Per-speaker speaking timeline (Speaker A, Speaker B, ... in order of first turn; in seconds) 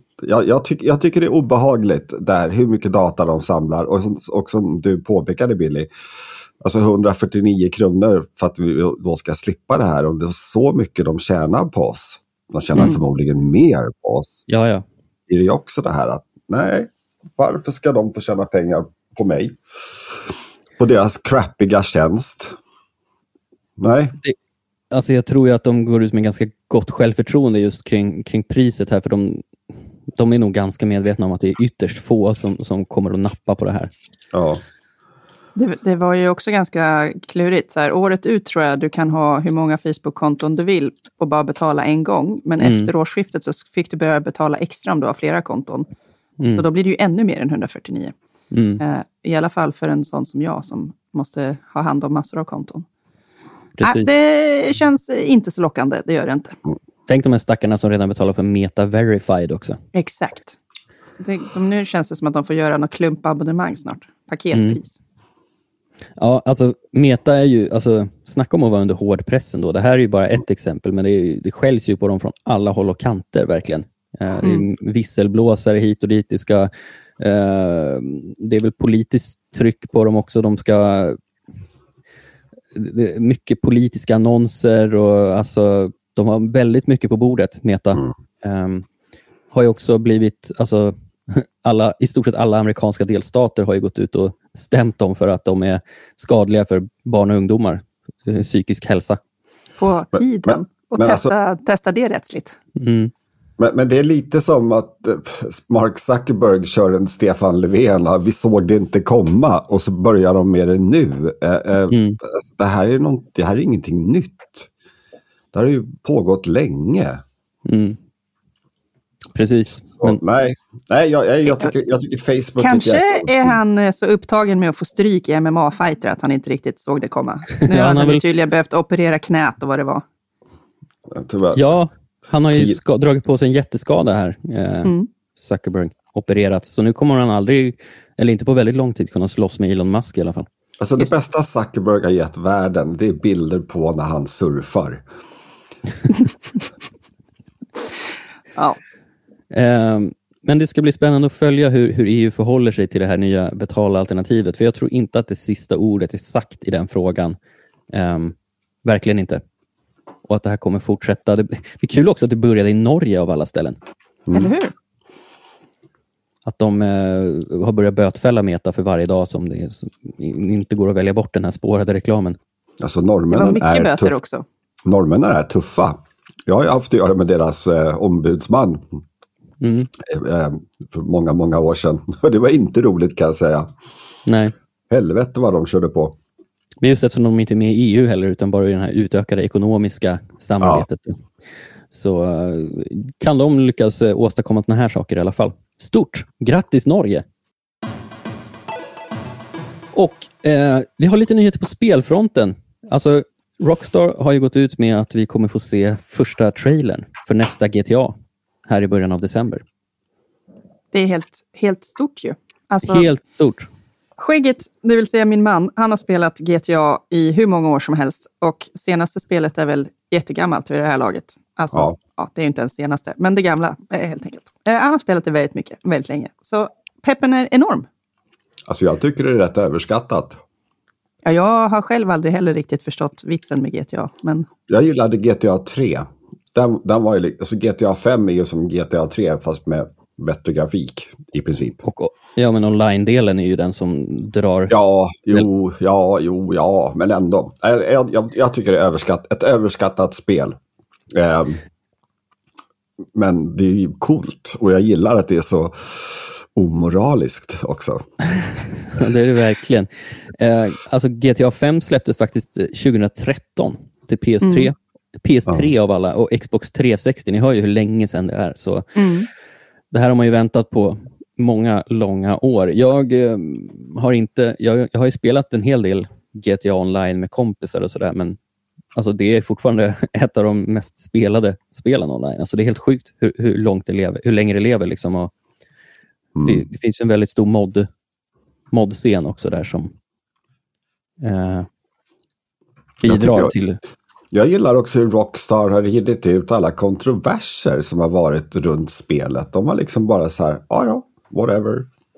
Speaker A: 0.2-5.9, 6.6-14.4, 15.3-19.6, 20.8-22.6, 23.8-24.1, 34.3-34.6, 100.1-101.3, 103.6-114.7, 115.5-117.2, 120.0-123.6, 131.1-131.6, 132.5-132.8, 140.8-145.0, 164.3-164.5, 172.8-174.2, 174.8-178.8, 180.0-183.7, 184.9-186.2, 228.7-230.4, 234.7-241.8, 244.7-250.6, 251.1-251.6, 253.1-258.1, 286.3-286.6, 293.0-293.5, 294.3-301.9
Speaker B: 14.5-14.8, 24.9-29.4, 30.1-33.9, 42.6-42.9, 48.5-48.8, 53.8-54.1, 57.1-59.8, 64.5-64.8, 66.2-81.2, 82.7-88.9, 89.5-99.2, 102.8-103.1, 111.9-112.2, 117.7-118.0, 119.3-120.2, 127.6-128.2, 131.5-140.5, 149.5-157.4, 157.9-159.4, 160.2-163.8, 166.4-172.4, 179.6-179.9, 184.2-184.5, 186.8-191.2, 191.9-197.2, 199.9-209.6, 212.8-213.7, 241.8-244.7, 258.9-268.9, 269.9-278.4, 278.9-285.3, 286.4-287.9, 288.7-289.9, 291.2-291.7, 293.0-293.8
Speaker C: 35.5-45.9, 46.5-48.1, 48.8-52.9, 53.8-56.6, 59.9-60.6, 61.2-65.0, 99.8-102.6, 122.6-130.0, 164.3-164.7, 173.3-174.4, 210.9-213.1, 214.2-227.9, 231.2-234.5, 264.4-264.7, 268.9-269.3